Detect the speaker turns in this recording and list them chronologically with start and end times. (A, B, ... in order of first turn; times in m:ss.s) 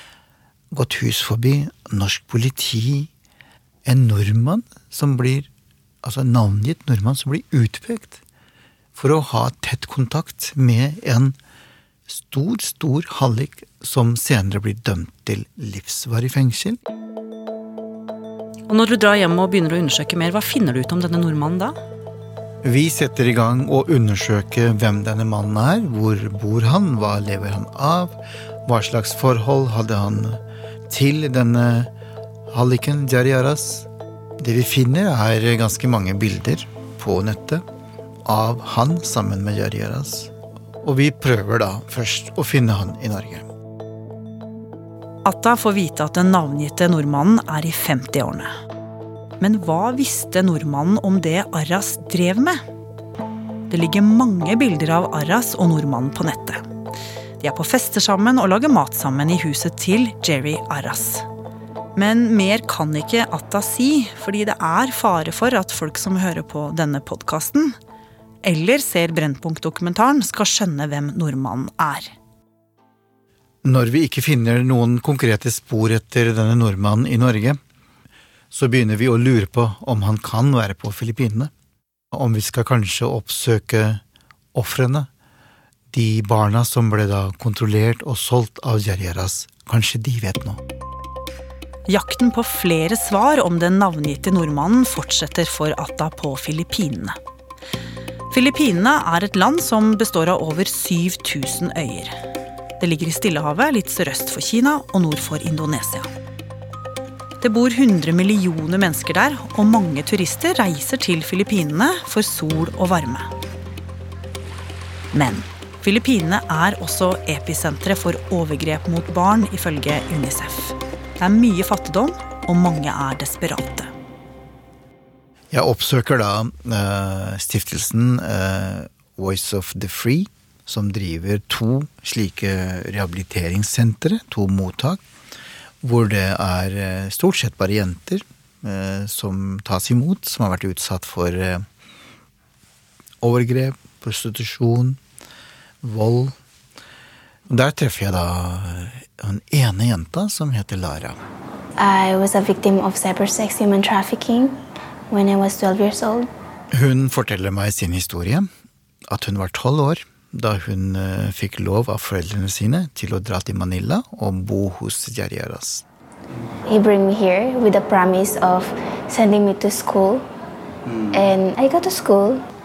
0:00.7-0:03.1 A
0:03.8-0:05.5 A
0:06.0-0:08.2 A
0:09.0-0:11.4 A
0:12.1-0:16.8 A
0:18.7-0:21.7 B
0:22.6-0:31.9 A
0:32.5-0:33.9 A
0:34.4-0:37.6 A
0:38.2-0:40.3 A
0:40.8-0:43.5 A
0:45.2-0:48.5 B
0:49.4-0:52.6 B
0:53.7-0:56.6 B
0:57.4-1:01.2 B
1:02.0-1:07.7 B
1:08.4-1:12.1 B
1:13.6-1:17.6 A
1:18.5-1:21.5 A
1:22.1-1:24.0 A
1:24.5-1:25.1 A
1:25.9-1:30.6 A
1:31.9-1:37.2 B
1:38.3-1:42.1 B
1:42.8-1:46.1 B
1:47.4-1:53.3 B
1:55.1-2:03.9 B
2:05.5-2:15.0 A
2:15.8-2:21.6 A
2:23.2-2:25.0 A
2:25.8-2:26.3 A
2:27.5-2:31.2 A
2:31.8-2:34.6 C
2:35.1-2:36.3 C
2:36.7-2:38.5 A
2:39.1-2:45.8 A
2:46.6-2:50.2 C
2:51.1-2:52.4 C